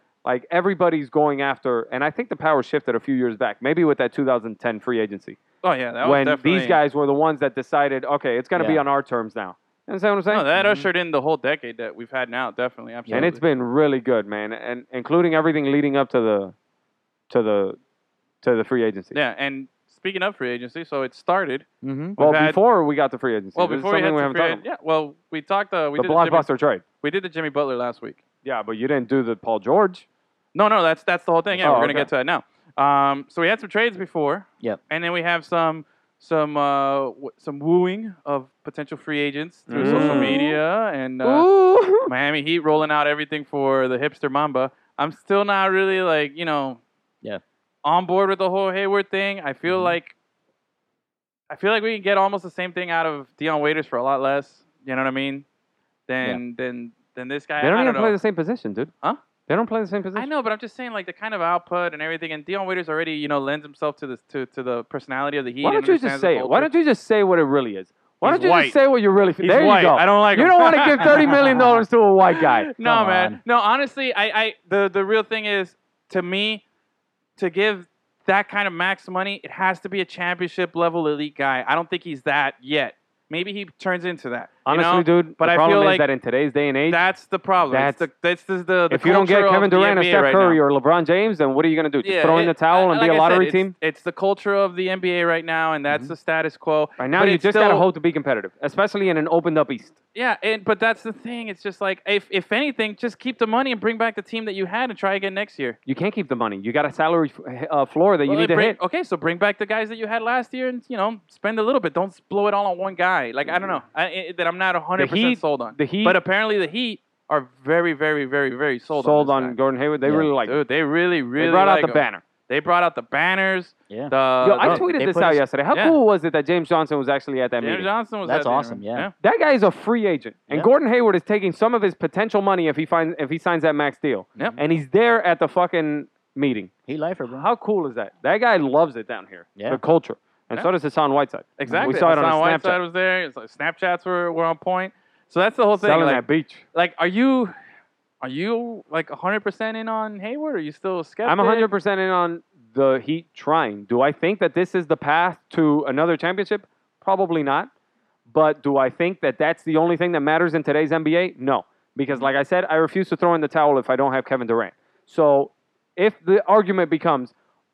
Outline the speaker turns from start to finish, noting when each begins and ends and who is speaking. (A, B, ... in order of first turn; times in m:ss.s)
0:00.2-0:05.4 A
0:05.6-0:06.8 B
0:06.0-0:10.5 A
0:08.6-0:08.8 C
0:10.3-0:13.4 B
0:10.6-0:10.9 C
0:13.1-0:16.5 A
0:17.3-0:17.8 A
0:18.4-0:19.1 A
0:19.1-0:21.6 B
0:21.8-0:22.2 C
0:22.2-0:22.6 B
0:22.2-0:24.6 A
0:23.5-0:26.5 B
0:26.0-0:26.8 A
0:27.0-0:28.2 B
0:28.4-0:30.0 A
0:30.5-0:41.5 B
0:31.6-0:32.1 A
0:39.7-0:40.6 A
0:39.8-0:40.4 C
0:41.2-0:42.1 A
0:42.0-0:46.8 B
0:47.8-0:50.1 B
0:49.7-0:49.9 C
0:51.5-0:55.4 B
0:56.1-0:58.2 B
0:57.6-0:58.9 A
0:59.5-1:00.3 A
1:00.1-1:06.7 B
1:05.6-1:12.7 A
1:08.2-1:08.8 B
1:09.4-1:11.4 B
1:11.2-1:11.7 C
1:12.4-1:16.6 B
1:12.8-1:13.4 C
1:17.4-1:26.1 B
1:24.6-1:27.0 A
1:26.9-1:30.6 B
1:27.7-1:28.1 A
1:28.9-1:33.7 A
1:32.0-1:37.9 B
1:35.9-1:36.1 C
1:37.0-1:40.0 A
1:40.1-1:45.8 B
1:45.8-1:48.8 A
1:48.2-1:59.6 B
1:55.0-1:56.2 A
1:58.9-2:00.6 A
2:00.0-2:00.3 C
2:00.4-2:04.8 B
2:01.4-2:02.2 A
2:03.9-2:05.4 C
2:04.4-2:07.9 A
2:05.7-2:06.0 B
2:07.6-2:09.1 B
2:08.2-2:09.1 C
2:09.2-2:16.7 A
2:16.9-2:17.5 C
2:17.3-2:22.8 A
2:19.6-2:19.8 C
2:21.6-2:27.5 B
2:21.7-2:22.0 C
2:25.8-2:26.6 A
2:28.2-2:31.7 B
2:31.2-2:37.7 A
2:38.3-2:47.3 A